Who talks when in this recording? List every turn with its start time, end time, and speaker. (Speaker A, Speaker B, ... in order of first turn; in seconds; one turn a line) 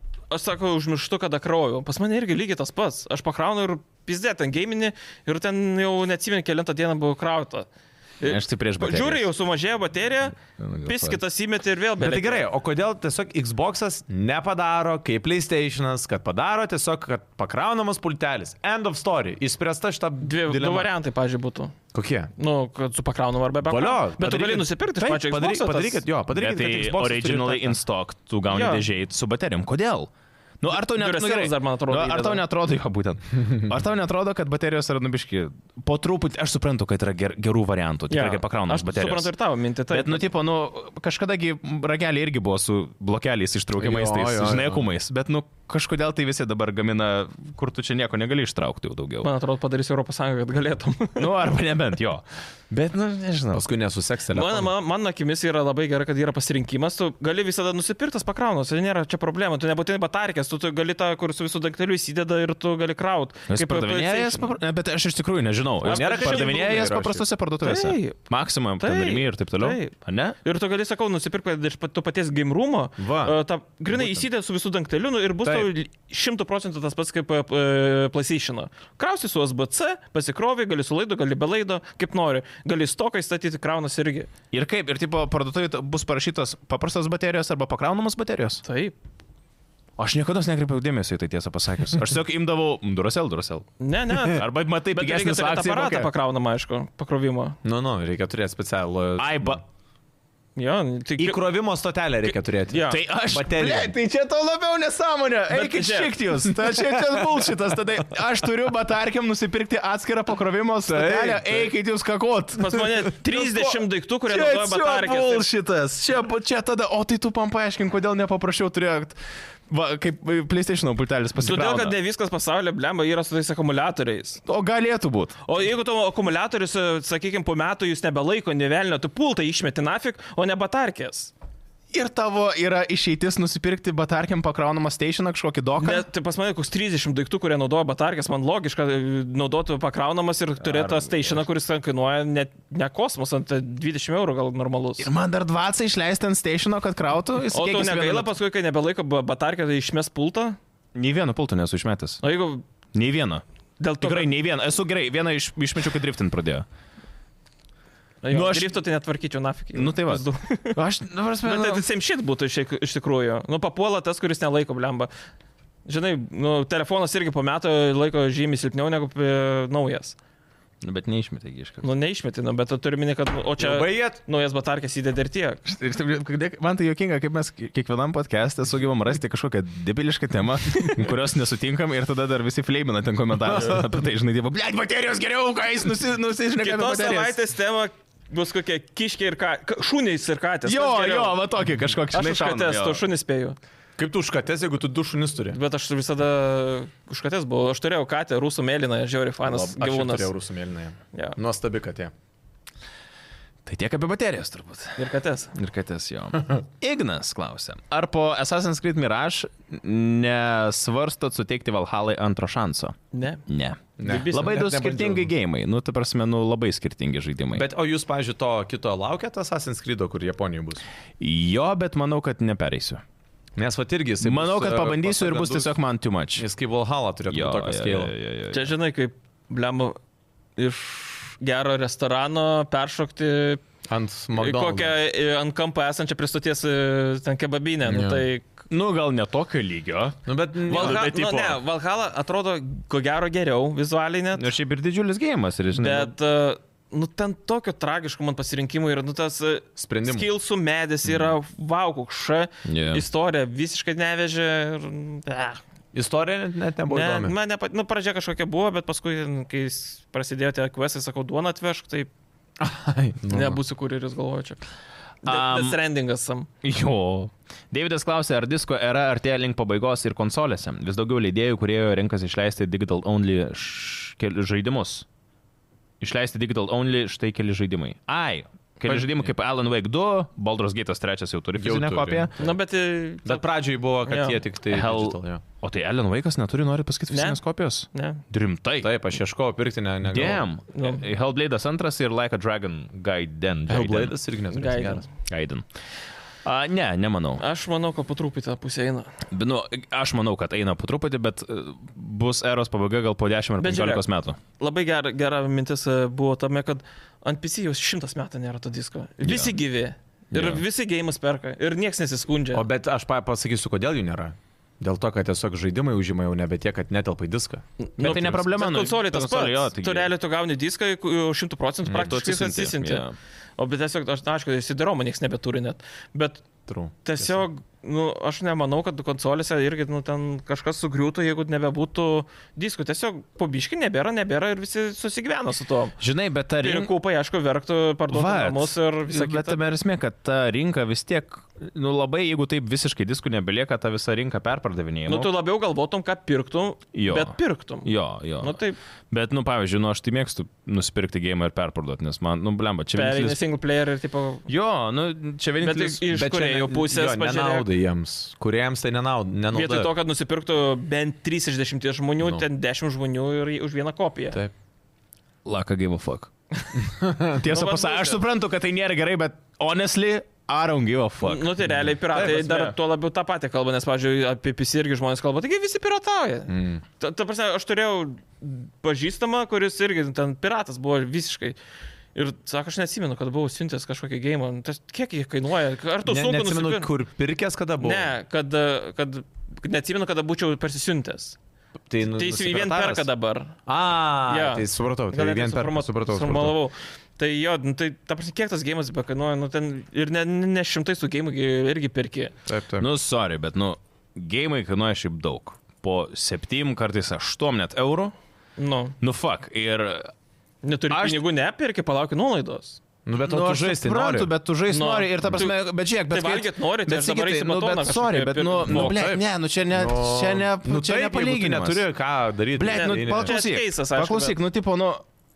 Speaker A: 0.3-7.7
Speaker A: 8.2-12.5
Speaker B: 8.2-9.3
Speaker B: 10.6-11.2
Speaker C: 12.0-20.9
Speaker A: 20.2-21.7
Speaker C: 21.9-22.3
Speaker A: 22.4-26.0
Speaker C: 23.6-27.8
Speaker B: 26.3-30.1
Speaker A: 28.5-28.8
Speaker B: 30.6-39.3
Speaker A: 30.9-32.4
Speaker A: 38.1-40.2
Speaker B: 39.9-49.3
Speaker C: 43.8-44.8
Speaker A: 49.2-51.3
Speaker B: 51.2-53.6
Speaker C: 53.5-54.7
Speaker A: 54.3-64.5
Speaker B: 63.5-70.4
Speaker C: 65.8-67.2
Speaker A: 65.8-66.6
Speaker A: 67.6-68.2
Speaker A: 68.8-84.3
Speaker C: 73.0-73.3
Speaker C: 73.9-74.2
Speaker C: 75.4-75.7
Speaker B: 84.5-88.6
Speaker A: 88.6-89.0
Speaker B: 90.0-96.1
Speaker A: 93.8-97.6
Speaker C: 97.6-99.6
Speaker B: 99.2-99.6
Speaker A: 100.5-101.4
Speaker C: 101.2-103.9
Speaker A: 102.7-103.0
Speaker B: 102.9-112.8
Speaker A: 105.5-106.1
Speaker C: 106.6-107.2
Speaker C: 110.9-111.7
Speaker A: 112.5-115.5
Speaker B: 113.3-113.8
Speaker B: 114.3-119.1
Speaker B: 119.7-122.0
Speaker A: 121.4-124.4
Speaker B: 124.5-125.5
Speaker A: 125.5-131.3
Speaker B: 131.9-136.1
Speaker A: 135.8-145.1
Speaker B: 140.6-141.4
Speaker B: 145.0-148.3
Speaker A: 147.5-150.6
Speaker B: 150.9-152.2
Speaker A: 152.2-152.6
Speaker B: 152.9-153.4
Speaker A: 153.8-154.3
Speaker B: 154.0-156.6
Speaker A: 158.2-160.8
Speaker B: 158.3-158.7
Speaker B: 159.7-161.8
Speaker A: 161.4-165.1
Speaker A: 165.8-170.2
Speaker B: 170.8-171.8
Speaker A: 171.8-175.6
Speaker C: 173.6-174.2
Speaker B: 175.6-187.4
Speaker A: 180.7-181.1
Speaker C: 183.5-183.8
Speaker A: 186.6-191.4
Speaker B: 190.7-193.0
Speaker A: 192.1-193.6
Speaker C: 194.0-195.6
Speaker A: 195.5-200.3
Speaker C: 199.4-202.1
Speaker B: 203.7-212.9
Speaker A: 205.0-205.5
Speaker A: 213.1-213.4
Speaker B: 213.5-217.6
Speaker C: 214.0-215.3
Speaker A: 214.0-214.6
Speaker C: 217.5-220.8
Speaker B: 221.2-223.0
Speaker C: 223.6-225.8
Speaker B: 224.2-226.4
Speaker C: 226.4-228.1
Speaker B: 227.3-228.7
Speaker A: 228.5-230.0
Speaker A: 230.6-233.6
Speaker C: 233.9-234.9
Speaker A: 234.3-238.4
Speaker C: 237.8-238.2
Speaker B: 238.7-241.6
Speaker C: 240.3-241.1
Speaker A: 240.7-244.5
Speaker B: 244.3-246.1
Speaker A: 245.7-255.6
Speaker C: 249.8-250.3
Speaker B: 252.6-253.0
Speaker C: 255.9-257.3
Speaker A: 256.9-262.1
Speaker C: 262.6-263.6
Speaker A: 263.3-264.6
Speaker A: 265.2-266.5
Speaker B: 265.2-265.8
Speaker B: 266.6-275.0
Speaker B: 276.0-282.4
Speaker C: 281.6-282.3
Speaker A: 282.4-283.4
Speaker C: 283.2-285.4
Speaker A: 284.0-284.4
Speaker B: 284.7-288.9
Speaker A: 287.1-287.4
Speaker A: 287.9-288.2
Speaker C: 288.8-290.5
Speaker B: 290.1-294.1
Speaker A: 290.7-291.0
Speaker C: 293.7-295.1
Speaker A: 294.5-295.1
Speaker B: 295.2-295.6
Speaker B: 296.4-297.4
Speaker A: 297.4-299.1
Speaker B: 299.3-304.4
Speaker A: 303.6-304.0
Speaker A: 304.6-312.6
Speaker B: 309.2-309.6
Speaker B: 310.3-310.6
Speaker C: 312.5-318.1
Speaker A: 317.8-323.0
Speaker B: 318.0-320.1
Speaker B: 321.9-323.1
Speaker A: 323.6-326.4
Speaker C: 326.7-327.4
Speaker A: 327.0-335.9
Speaker B: 336.0-336.9
Speaker A: 336.6-339.6
Speaker B: 338.1-345.3
Speaker A: 345.1-348.8
Speaker B: 346.9-348.6
Speaker B: 349.1-353.4
Speaker A: 352.9-354.4
Speaker B: 354.5-356.0
Speaker A: 355.6-357.7
Speaker C: 356.1-359.9
Speaker A: 359.5-364.4
Speaker B: 365.4-366.3
Speaker C: 366.8-367.4
Speaker B: 367.3-371.5
Speaker A: 367.4-368.2
Speaker A: 371.2-381.6
Speaker C: 371.6-372.7
Speaker C: 376.5-376.8
Speaker A: 382.1-386.9
Speaker C: 386.1-388.1
Speaker A: 387.8-391.4
Speaker C: 391.9-393.1
Speaker A: 392.0-393.5
Speaker C: 393.6-396.6
Speaker A: 394.3-402.3
Speaker C: 402.4-402.9
Speaker B: 402.8-408.1
Speaker A: 408.6-408.9
Speaker B: 409.0-410.1
Speaker A: 410.6-412.8
Speaker B: 410.9-411.2
Speaker C: 413.1-414.3
Speaker B: 413.2-421.8
Speaker A: 414.7-415.6
Speaker A: 416.1-419.0
Speaker C: 418.7-423.3
Speaker B: 422.6-425.0
Speaker A: 422.7-424.4